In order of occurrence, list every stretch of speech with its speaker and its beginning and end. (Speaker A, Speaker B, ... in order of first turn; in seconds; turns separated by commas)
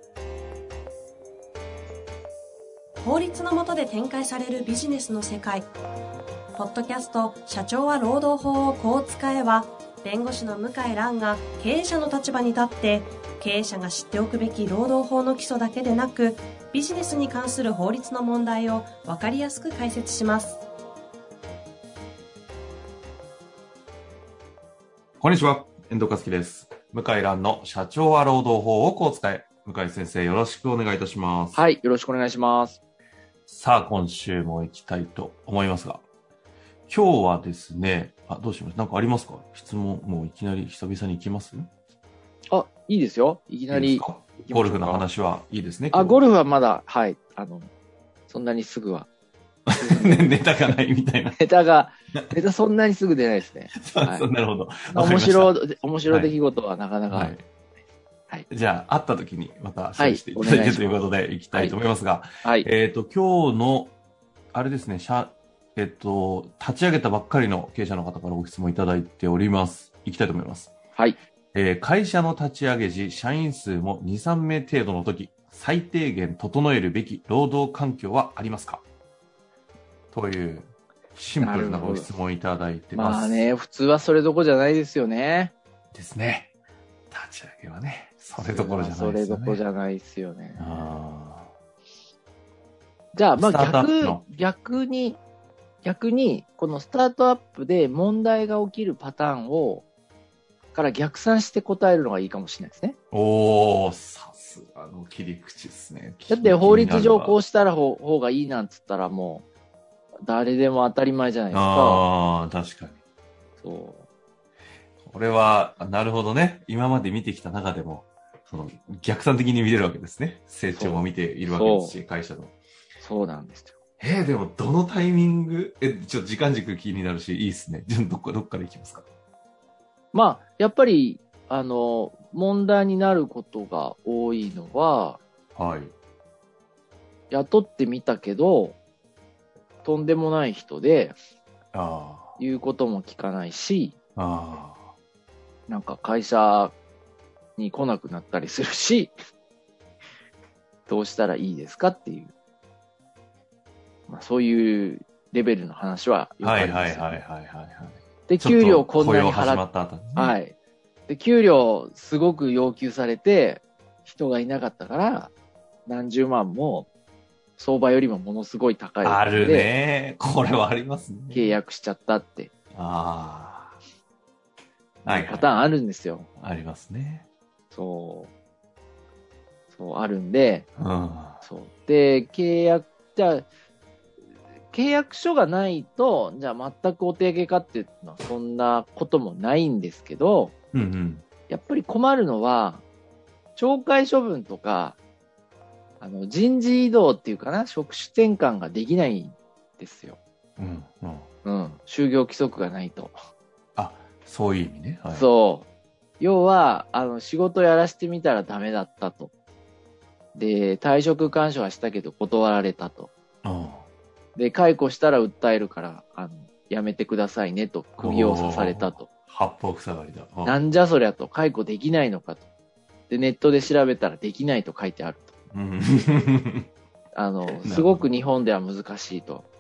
Speaker A: 3.0-5.7, Speaker A: 6.6-20.6, Speaker B: 25.2-31.6, Speaker C: 31.5-32.8, Speaker B: 33.5-36.0, Speaker B: 36.9-41.7, Speaker C: 42.5-45.1, Speaker B: 43.7-46.2, Speaker C: 45.9-47.7, Speaker C: 48.3-49.1, Speaker B: 49.7-51.4, Speaker C: 49.8-50.4, Speaker C: 51.4-54.3, Speaker B: 53.8-55.6, Speaker C: 54.9-57.4, Speaker B: 56.1-56.4, Speaker B: 57.1-57.4, Speaker B: 58.5-63.9, Speaker C: 60.0-61.0, Speaker C: 61.5-61.8, Speaker C: 62.4-62.7, Speaker B: 64.5-70.7, Speaker B: 71.5-78.8, Speaker B: 80.1-83.5, Speaker C: 81.4-82.1, Speaker C: 82.9-85.5, Speaker B: 85.9-86.5, Speaker B: 87.1-89.6, Speaker C: 88.4-90.9, Speaker B: 90.6-91.5, Speaker C: 93.1-95.2, Speaker B: 93.4-94.2, Speaker C: 95.8-99.9, Speaker C: 100.7-103.0, Speaker B: 103.1-107.4, Speaker C: 106.3-109.5, Speaker C: 110.3-112.1, Speaker B: 111.5-113.0, Speaker C: 113.6-114.1, Speaker B: 115.0-122.5, Speaker C: 120.7-122.0, Speaker C: 123.0-123.8, Speaker B: 124.0-129.1, Speaker C: 130.1-135.2, Speaker B: 135.6-135.9, Speaker C: 137.3-138.8, Speaker C: 139.8-141.2, Speaker B: 141.7-142.4, Speaker C: 142.4-144.0, Speaker B: 144.2-144.9, Speaker C: 145.7-146.8, Speaker C: 147.6-149.1, Speaker C: 150.9-152.3, Speaker C: 154.1-157.2, Speaker B: 156.4-160.4, Speaker C: 158.3-160.6, Speaker C: 161.1-165.3, Speaker C: 165.9-166.9, Speaker C: 167.6-169.7, Speaker B: 169.0-171.6, Speaker C: 171.3-172.5, Speaker B: 172.7-173.8, Speaker C: 175.0-176.3, Speaker B: 175.1-175.5, Speaker B: 176.4-177.3, Speaker C: 177.7-178.3, Speaker C: 179.7-180.7, Speaker B: 180.8-181.4, Speaker C: 181.4-183.5, Speaker C: 184.7-190.5, Speaker B: 190.7-191.2, Speaker C: 191.5-192.8, Speaker C: 193.6-195.0, Speaker C: 196.0-200.2, Speaker B: 200.6-201.3, Speaker C: 201.4-203.2, Speaker B: 203.8-205.3, Speaker C: 205.1-205.7, Speaker C: 206.2-209.3, Speaker C: 210.3-213.1, Speaker B: 213.4-213.8, Speaker C: 214.3-219.1, Speaker B: 218.0-220.6, Speaker C: 220.4-222.5, Speaker C: 223.1-225.3, Speaker B: 225.5-226.7, Speaker C: 227.1-229.5, Speaker B: 227.6-228.1